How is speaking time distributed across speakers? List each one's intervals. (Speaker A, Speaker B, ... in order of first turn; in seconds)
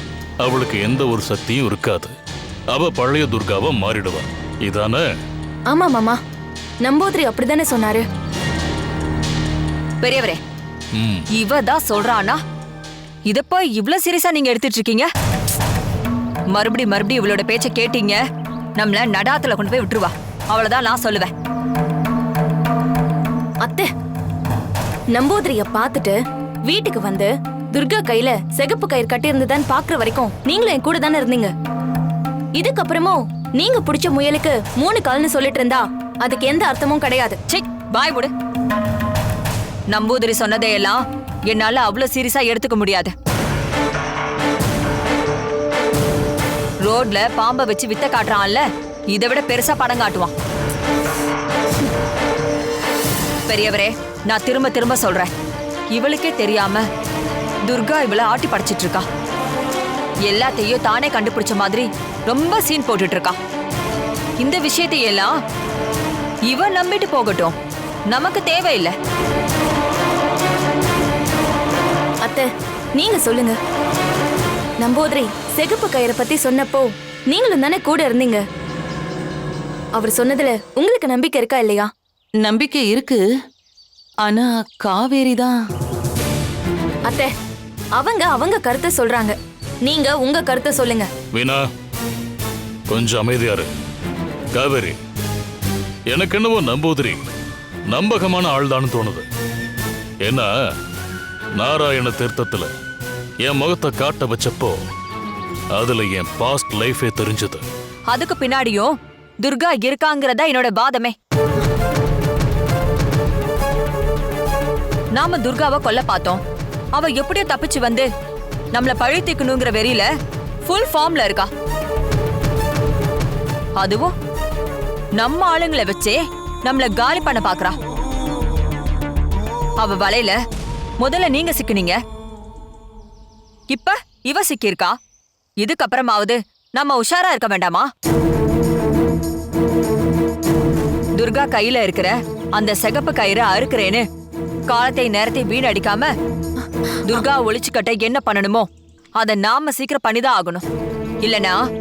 Speaker A: 0.4-2.1, 2.7-5.1, 10.9-11.3, 91.3-91.7, 92.9-93.7, 94.5-95.0, 96.1-97.2, 97.9-99.3, 100.2-100.5, 101.6-102.7, 103.4-104.9, 105.7-107.7
Speaker B: 5.7-6.2, 6.8-8.1, 23.6-23.9, 25.1-31.5, 32.5-37.4, 72.2-73.6, 74.8-78.4, 80.0-81.9, 87.1-87.3, 88.0-91.1
Speaker C: 10.0-10.4, 11.3-12.4, 13.3-15.1, 16.5-18.2, 18.8-21.3, 37.5-38.3, 39.9-43.1, 46.8-50.3, 53.5-55.3, 55.9-56.9, 57.6-59.1, 60.2-63.4, 64.4-65.3, 66.5-67.5, 68.1-68.9, 108.1-111.2, 115.1-116.4, 116.9-118.1, 118.7-120.1, 120.7-121.5, 123.8-124.1, 125.2-127.8, 129.8-130.4, 131.0-132.0, 133.7-135.0, 135.6-137.9, 141.2-144.1, 144.7-146.1, 147.0-148.7, 149.2-150.6, 151.2-151.6
Speaker D: 82.4-83.3, 84.2-85.6